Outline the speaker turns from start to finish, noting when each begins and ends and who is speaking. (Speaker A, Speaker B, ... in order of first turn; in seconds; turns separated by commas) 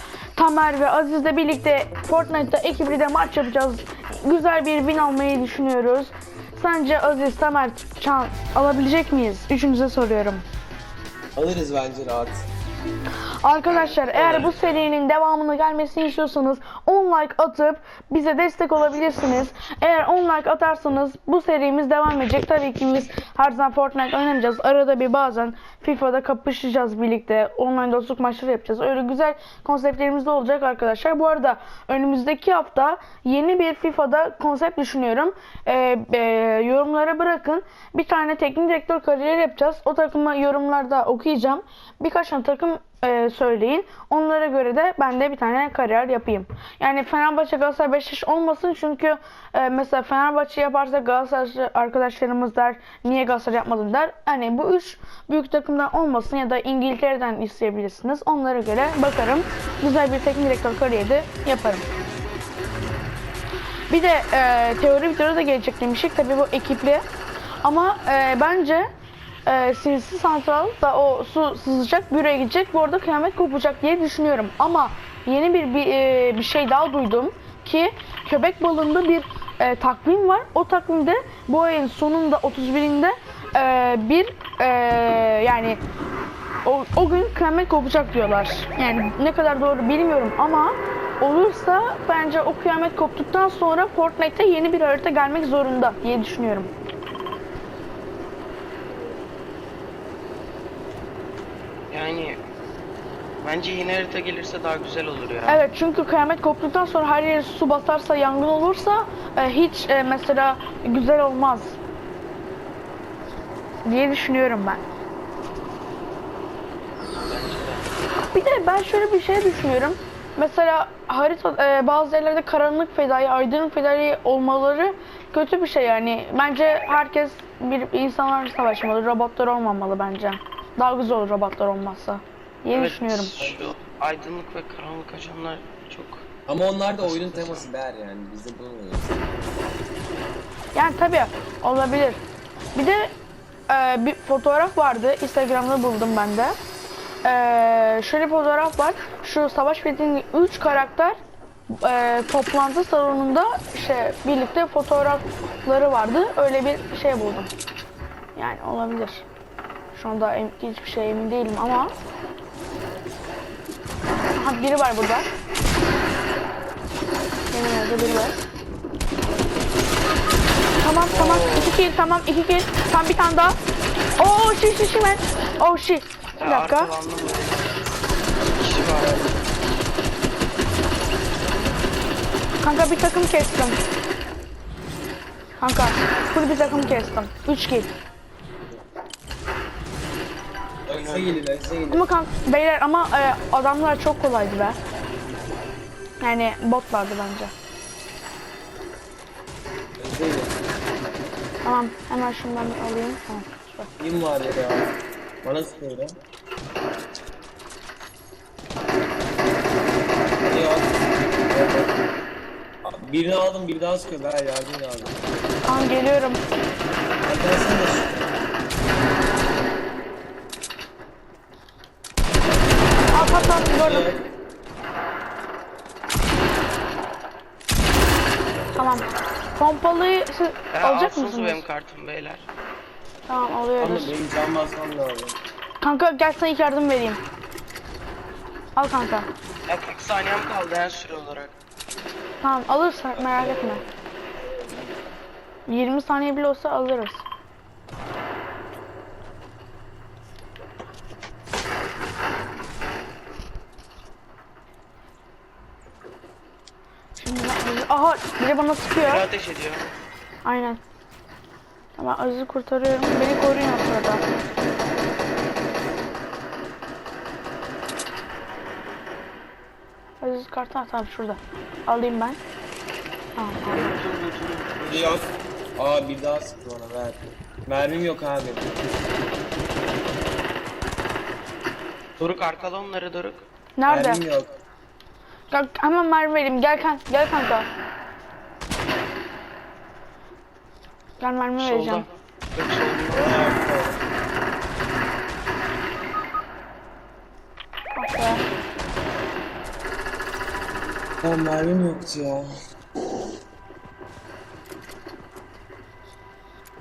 Speaker A: 0.4-10.4, Speaker B: 11.3-12.5, Speaker A: 13.2-61.9, Speaker C: 13.7-14.9, Speaker A: 63.9-67.0, Speaker A: 67.6-68.9, Speaker A: 69.5-85.8, Speaker A: 86.6-96.7, Speaker C: 101.9-102.4, Speaker C: 103.4-105.6, Speaker A: 105.5-111.8, Speaker A: 113.8-114.8, Speaker C: 117.2-117.9, Speaker A: 118.3-133.4, Speaker C: 132.7-136.2, Speaker B: 133.4-133.7, Speaker B: 136.5-139.2, Speaker C: 137.0-137.7, Speaker A: 140.8-142.2, Speaker A: 142.8-143.1, Speaker A: 143.7-146.6, Speaker A: 147.2-151.2, Speaker A: 151.7-157.5, Speaker A: 158.4-159.3, Speaker A: 159.9-161.9, Speaker A: 164.3-165.3, Speaker A: 167.5-168.3, Speaker A: 170.8-173.6, Speaker C: 171.1-171.8, Speaker A: 174.2-176.9, Speaker C: 176.4-177.8, Speaker C: 178.4-179.3, Speaker A: 182.6-183.8, Speaker A: 185.6-187.9, Speaker C: 190.9-191.4, Speaker B: 190.9-192.1, Speaker A: 191.9-194.8, Speaker A: 196.2-197.5, Speaker B: 200.0-200.6, Speaker A: 201.6-203.9, Speaker B: 204.0-204.9, Speaker B: 205.4-206.1, Speaker B: 210.4-212.0, Speaker B: 212.8-215.2, Speaker A: 215.7-216.4, Speaker B: 217.2-218.4, Speaker A: 223.1-224.1, Speaker B: 223.7-224.2, Speaker A: 228.8-231.6, Speaker C: 230.8-232.4, Speaker A: 233.3-234.2, Speaker B: 233.8-235.4, Speaker A: 235.8-237.2, Speaker A: 238.8-239.3, Speaker C: 239.7-241.5, Speaker A: 242.4-243.8, Speaker B: 243.2-243.9, Speaker B: 244.4-244.9, Speaker A: 245.7-247.2, Speaker A: 257.2-259.2, Speaker C: 259.0-259.9, Speaker A: 260.4-260.8, Speaker A: 262.0-264.2, Speaker A: 270.2-272.4, Speaker A: 273.4-273.8, Speaker C: 273.7-275.3, Speaker B: 274.9-278.9, Speaker C: 282.2-283.4, Speaker A: 283.8-284.2, Speaker B: 283.9-284.5, Speaker A: 285.5-287.7, Speaker A: 291.2-292.1, Speaker C: 291.6-293.4, Speaker B: 293.1-294.0, Speaker A: 297.9-298.4, Speaker B: 301.2-302.5